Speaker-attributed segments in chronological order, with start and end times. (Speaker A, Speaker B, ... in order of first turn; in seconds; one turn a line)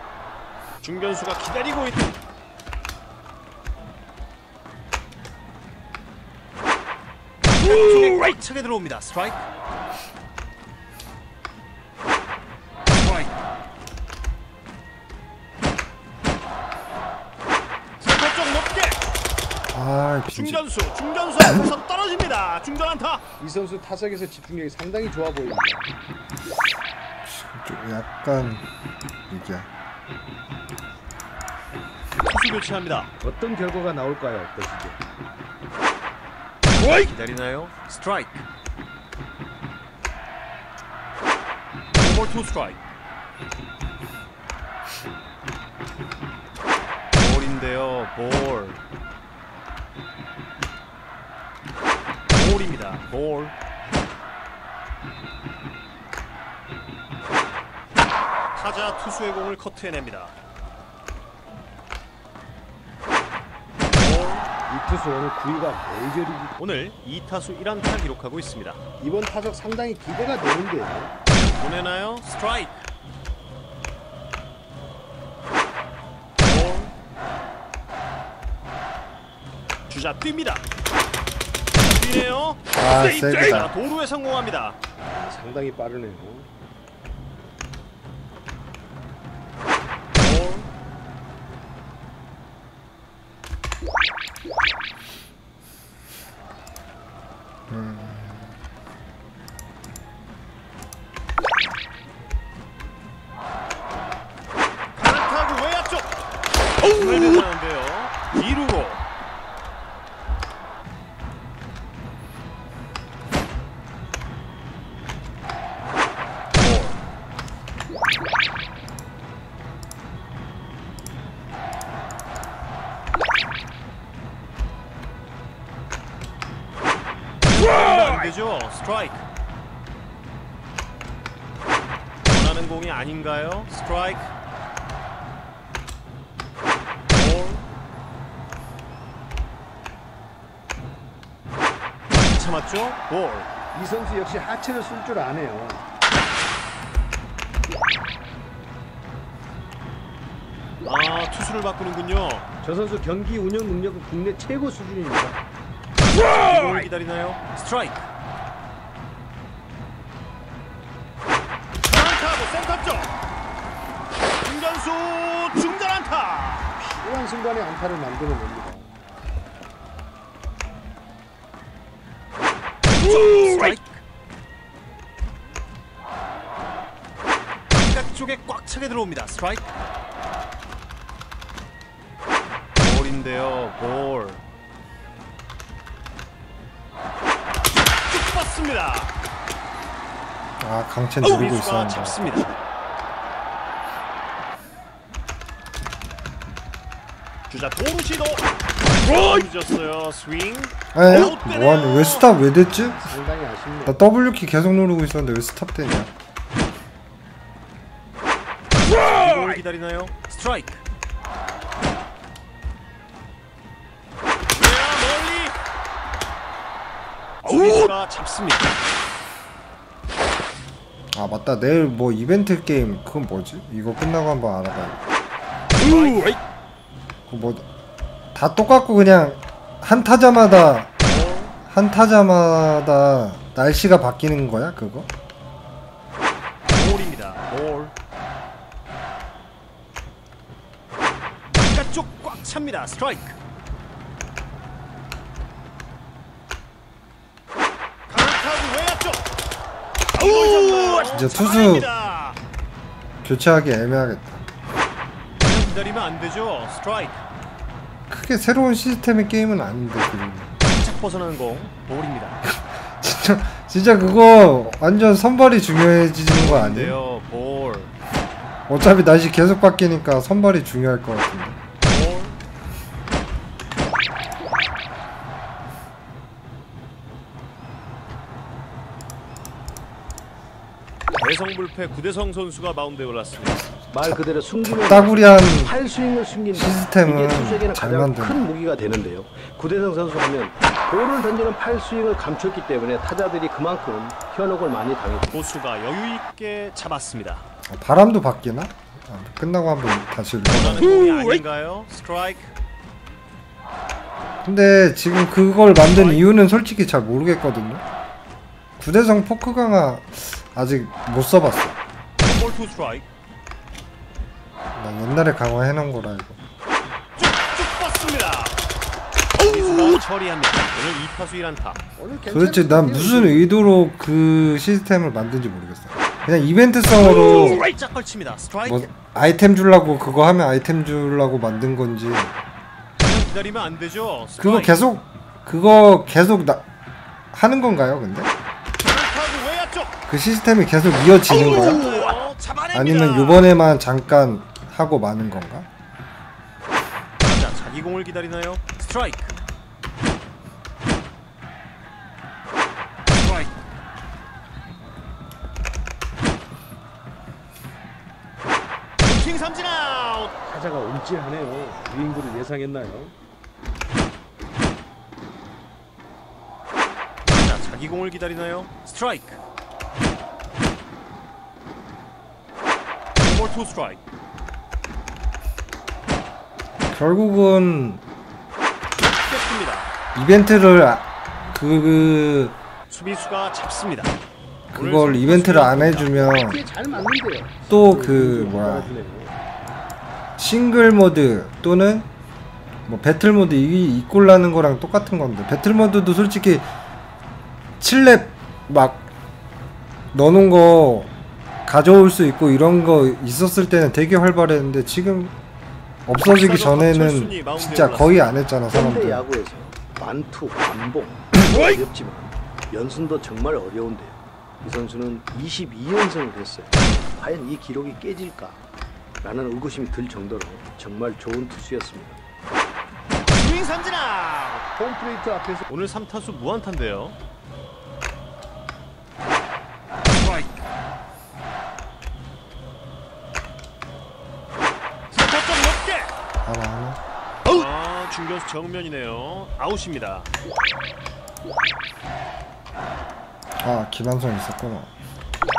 Speaker A: 0.8-2.0
Speaker A: 7.4-9.5
Speaker A: 18.0-19.0
Speaker B: 19.7-20.6
Speaker A: 20.3-23.2
Speaker C: 23.4-25.9
Speaker B: 27.2-28.6
Speaker B: 29.3-29.7
Speaker A: 32.2-33.1
Speaker C: 33.2-35.0
Speaker A: 36.8-38.5
Speaker A: 41.9-42.8
Speaker A: 47.1-48.8
Speaker A: 52.3-53.5
Speaker A: 58.5-60.3
Speaker A: 63.9-64.5
Speaker C: 64.7-66.5
Speaker A: 66.6-68.8
Speaker C: 69.0-71.1
Speaker A: 71.3-72.9
Speaker A: 76.4-76.9
Speaker A: 79.9-80.6
Speaker A: 81.7-84.8
Speaker B: 82.7-83.7
Speaker C: 85.0-86.5
Speaker A: 90.2-90.7
Speaker B: 97.7-98.5
Speaker A: 105.0-106.1
Speaker A: 106.8-109.0
Speaker A: 116.5-117.0
Speaker A: 127.4-129.3
Speaker A: 132.3-134.3
Speaker A: 137.1-137.6
Speaker A: 142.1-143.5
Speaker C: 143.7-145.8
Speaker A: 150.8-152.5
Speaker C: 152.6-155.4
Speaker A: 156.0-158.1
Speaker A: 161.8-163.1
Speaker A: 164.4-166.7
Speaker C: 166.8-168.9
Speaker A: 172.9-174.0
Speaker A: 177.7-179.7
Speaker A: 182.8-184.4
Speaker A: 188.0-189.1
Speaker B: 190.6-192.2
Speaker A: 191.2-192.6
Speaker A: 197.5-202.3
Speaker B: 200.9-203.1
Speaker C: 202.8-204.0
Speaker B: 203.9-206.1
Speaker A: 208.7-210.8
Speaker A: 214.5-215.6
Speaker A: 217.4-218.8
Speaker B: 221.1-225.0
Speaker A: 225.8-226.4
Speaker B: 227.3-227.7
Speaker B: 228.3-230.9
Speaker A: 231.0-231.6
Speaker B: 231.7-235.1
Speaker A: 236.7-237.9
Speaker A: 241.6-243.3
Speaker A: 248.1-249.3
Speaker A: 250.1-252.4
Speaker B: 251.1-251.9
Speaker B: 253.2-254.4
Speaker A: 255.4-257.2
Speaker B: 258.1-260.5
Speaker A: 260.6-262.4
Speaker B: 262.4-267.0
Speaker A: 266.3-267.9
Speaker B: 268.7-271.6
Speaker A: 271.8-272.4
Speaker A: 281.2-283.8
Speaker C: 283.9-295.4
Speaker B: 284.1-285.7
Speaker B: 286.5-288.5
Speaker A: 295.3-297.4
Speaker B: 297.7-300.9
Speaker A: 300.5-302.5
Speaker B: 304.4-307.8
Speaker A: 305.9-306.2
Speaker B: 308.8-311.8
Speaker A: 312.2-313.1
Speaker B: 314.8-316.4
Speaker A: 317.2-318.6
Speaker A: 319.4-321.8
Speaker C: 322.0-323.4
Speaker B: 322.3-327.6
Speaker A: 326.9-328.9
Speaker B: 328.7-332.3
Speaker A: 333.0-334.8
Speaker B: 334.4-336.7
Speaker B: 337.3-338.3
Speaker A: 338.8-339.9
Speaker B: 340.1-341.9
Speaker A: 341.3-343.5
Speaker B: 342.7-345.7
Speaker A: 347.2-349.3
Speaker A: 359.0-360.3
Speaker C: 360.5-363.1
Speaker A: 367.3-369.4
Speaker A: 373.2-374.0
Speaker B: 376.9-378.0
Speaker A: 378.9-379.9
Speaker B: 380.1-382.6
Speaker A: 382.9-384.2
Speaker B: 384.7-386.6
Speaker A: 384.8-386.3
Speaker C: 385.7-389.4
Speaker B: 387.7-388.9
Speaker B: 390.4-392.1
Speaker B: 392.9-396.7
Speaker B: 397.8-399.1
Speaker B: 400.1-401.1
Speaker B: 401.7-405.4
Speaker B: 406.1-409.2
Speaker A: 406.2-408.4
Speaker C: 408.7-418.6
Speaker C: 419.2-422.2
Speaker A: 423.3-424.6
Speaker C: 424.8-425.7
Speaker A: 425.7-427.2
Speaker A: 435.1-436.1
Speaker B: 436.4-437.0
Speaker A: 437.5-440.3
Speaker B: 443.6-444.9